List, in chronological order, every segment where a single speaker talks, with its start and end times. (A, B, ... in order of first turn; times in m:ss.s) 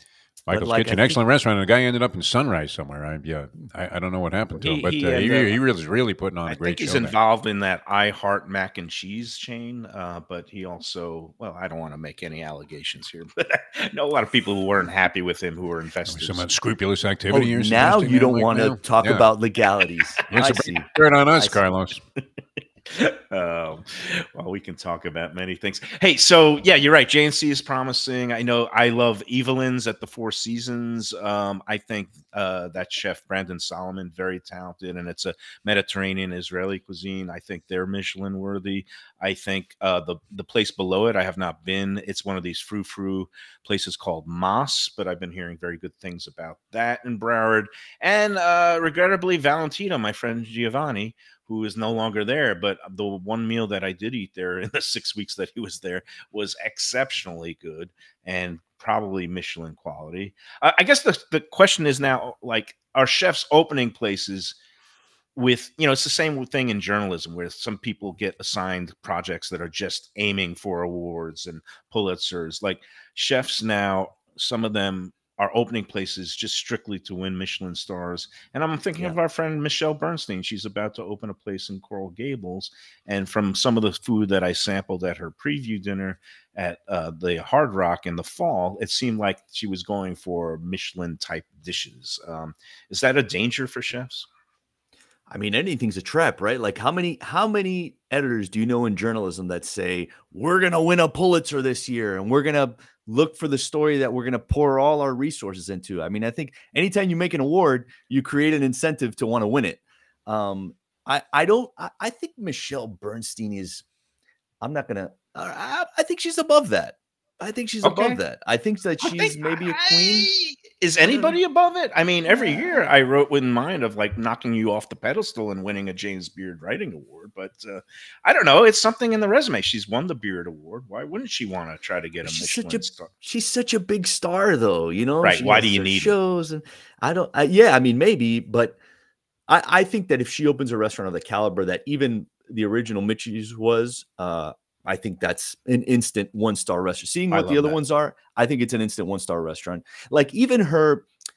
0:00.5-0:07.1 A
0:00.5-0:01.2 B
0:04.6-0:05.6 C
0:06.5-0:16.5 C
0:16.1-0:19.3 A
0:17.3-0:21.6 B
0:20.3-0:22.0 A
0:22.9-1:04.6 C
1:05.3-1:34.3 C
1:35.3-1:53.8 B
1:54.6-2:00.3 B
1:57.8-1:58.2 C
1:59.0-2:13.1 C
2:01.0-2:01.4 B
2:02.3-2:02.9 B
2:12.2-2:18.8 B
2:15.2-2:16.2 C
2:19.5-2:31.1 B
2:27.3-2:27.8 C